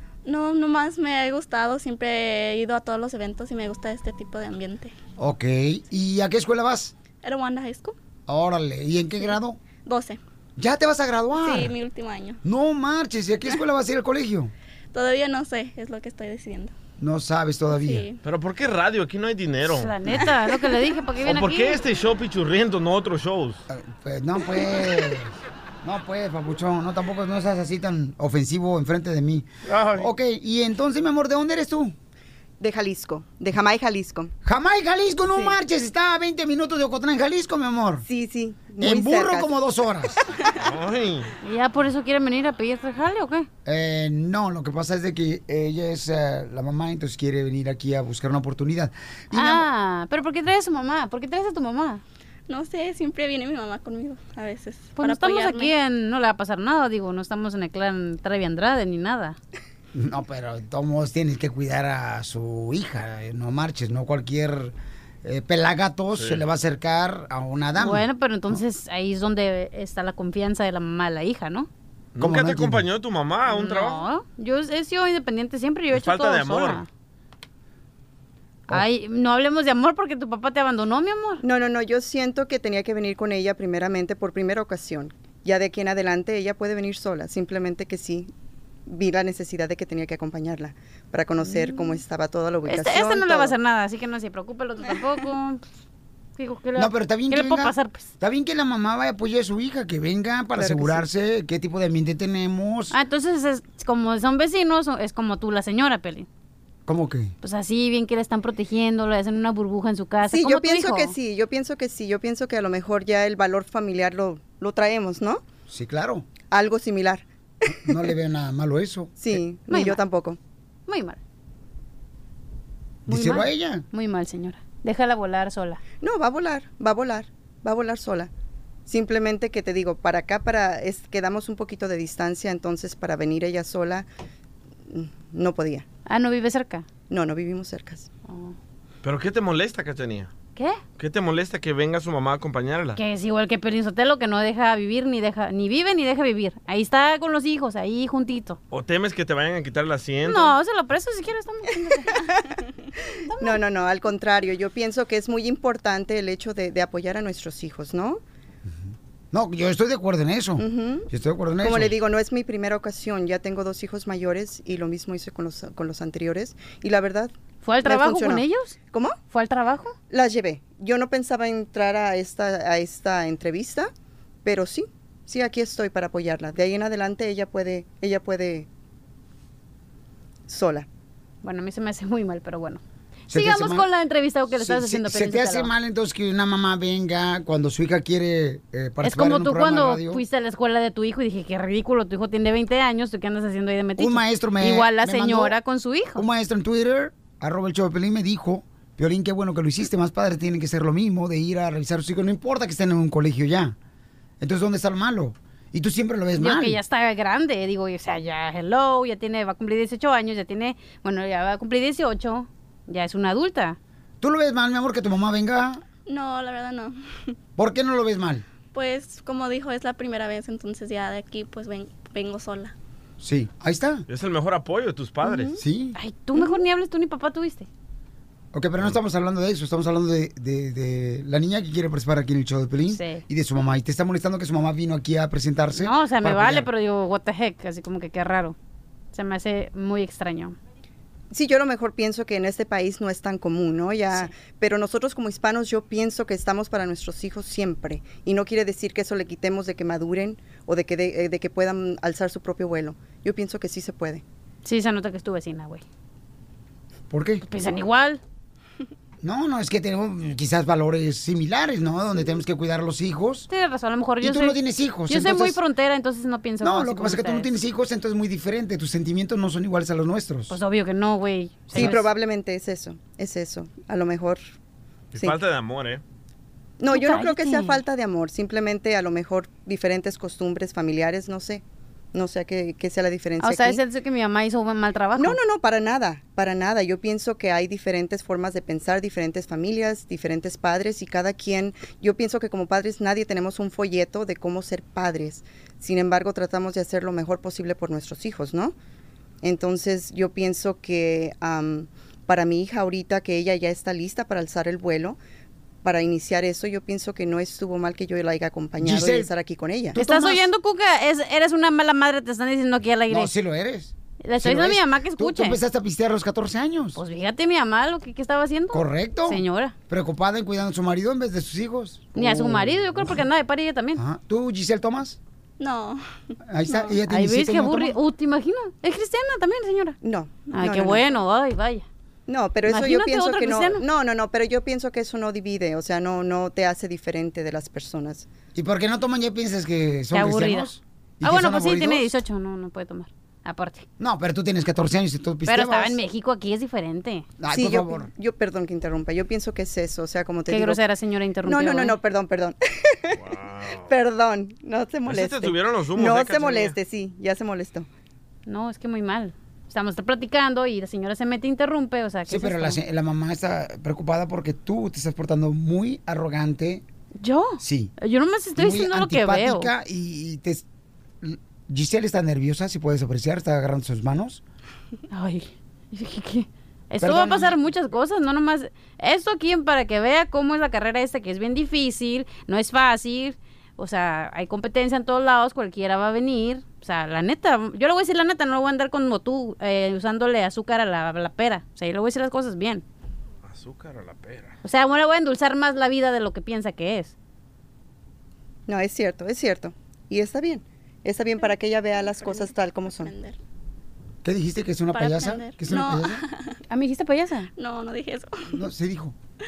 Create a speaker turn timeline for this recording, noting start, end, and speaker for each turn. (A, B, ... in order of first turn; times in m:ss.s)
0:00.2-0:04.9 A
0:05.2-0:06.9 B
0:07.2-0:08.0 A
0:08.3-0:09.6 B
0:09.8-0:10.2 A
0:10.6-0:11.7 B
0:11.3-0:12.4 A
0:12.4-0:14.5 B
0:14.9-0:16.7 A
0:17.0-0:18.1 B
0:17.7-0:18.2 A
0:18.2-0:20.0 C
0:19.7-0:21.8 D
0:21.2-0:23.6 C
0:23.7-0:31.9 B
0:29.7-0:30.1 C
0:32.6-0:34.3 E
0:34.4-0:38.0 B
0:35.3-0:35.6 E
0:38.0-0:39.5 E
0:38.8-0:40.2 B
0:40.6-0:41.3 C
0:41.4-0:43.5 D
0:43.6-0:49.7 B
0:49.3-0:52.0 D
0:52.5-0:55.7 A
0:55.0-0:59.4 D
0:59.9-1:08.6 B
1:06.2-1:06.4 C
1:07.8-1:11.7 D
1:12.2-1:14.0 C
1:12.2-1:12.8 B
1:13.5-1:16.9 D
1:15.9-1:16.8 C
1:18.7-1:21.4 D
1:21.4-1:28.3 E
1:28.9-1:33.6 E
1:31.4-1:32.0 D
1:32.7-1:35.6 D
1:36.4-1:38.1 D
1:36.8-1:43.0 B
1:40.6-1:41.0 E
1:42.9-1:46.3 D
1:46.9-1:47.3 B
1:47.4-1:51.1 D
1:50.2-1:55.4 E
1:55.7-1:56.3 B
1:56.5-1:57.9 E
1:57.9-1:59.1 B
1:59.2-2:00.4 E
1:59.7-2:00.0 D
2:00.9-2:01.2 D
2:03.1-2:03.8 B
2:03.1-2:05.8 D
2:06.0-2:08.3 E
2:08.9-2:14.1 E
2:14.9-2:15.9 E
2:16.1-2:16.9 D
2:17.1-2:18.1 E
2:18.3-2:18.6 D
2:19.0-2:20.3 C
2:21.0-2:23.0 C
2:23.0-2:28.6 D
2:28.7-2:30.6 C
2:30.2-2:32.2 D
2:32.1-2:32.6 E
2:33.3-2:33.6 D
2:33.4-2:38.2 E
2:39.3-2:42.0 B
2:40.6-2:41.1 E
2:41.6-2:47.3 E
2:47.6-2:48.8 D
2:47.8-2:49.2 E
2:49.3-2:50.0 D
2:50.1-2:53.9 E
2:54.4-2:58.7 E
3:00.5-3:00.9 E
3:01.4-3:05.7 D
3:03.3-3:03.9 B
3:04.5-3:10.2 B
3:09.0-3:16.2 D
3:14.0-3:15.6 B
3:16.2-3:23.8 B
3:24.4-3:26.8 B
3:26.4-3:33.8 D
3:34.2-3:35.8 B
3:36.1-3:37.4 A
3:37.6-3:38.4 B
3:38.7-3:42.7 A
3:43.2-3:44.0 B
3:44.1-3:45.6 C
3:45.2-3:45.5 E
3:45.6-3:46.0 B
3:46.0-3:47.7 D
3:48.5-3:56.7 B
3:52.9-3:53.2 D
3:55.8-3:58.6 D
3:59.1-4:00.6 D
4:01.3-4:14.2 E
4:14.6-4:15.8 D
4:17.1-4:17.4 B
4:17.4-4:18.2 D
4:19.2-4:23.5 B
4:23.5-4:24.6 D
4:24.2-4:25.6 B
4:25.1-4:27.5 D
4:26.6-4:30.5 B
4:30.5-4:32.1 D
4:31.7-4:34.4 E
4:35.1-4:36.0 C
4:36.8-4:43.8 E
4:36.9-4:37.8 D
4:43.4-4:45.4 D
4:45.2-4:58.8 E
4:59.4-5:05.2 E
5:05.8-5:10.0 E
5:08.8-5:09.3 B
5:10.0-5:10.5 B
5:10.0-5:13.3 D
5:13.1-5:17.0 B
5:14.2-5:15.6 D
5:17.0-5:19.8 D
5:18.7-5:23.2 B
5:22.2-5:24.0 D
5:24.0-5:25.2 B
5:25.6-5:26.8 A
5:26.4-5:28.0 B
5:27.1-5:30.0 D
5:30.0-5:31.1 E
5:30.5-5:31.9 D
5:32.3-5:38.3 E
5:32.7-5:33.8 D
5:38.5-5:42.1 B
5:40.1-5:40.7 D
5:41.2-5:43.9 D
5:44.0-5:46.0 B
5:45.5-5:47.3 D
5:47.4-5:48.1 B
5:47.5-5:50.8 E
5:50.5-5:52.0 D
5:51.5-5:53.2 E
5:53.2-5:53.9 C
5:53.9-5:57.9 E
5:55.1-5:56.8 C
5:58.5-6:02.8 D
6:02.3-6:06.8 B
6:07.2-6:09.7 D
6:07.6-6:07.9 B
6:08.6-6:10.6 B
6:11.2-6:14.4 B
6:15.1-6:32.8 D
6:17.0-6:17.6 B
6:33.5-6:34.5 C
6:34.6-6:37.2 D
6:38.7-6:43.2 E
6:41.4-6:43.4 A
6:44.2-6:46.2 B
6:44.9-6:46.6 A
6:46.7-6:47.5 D
6:47.6-6:48.6 A
6:48.5-6:49.2 B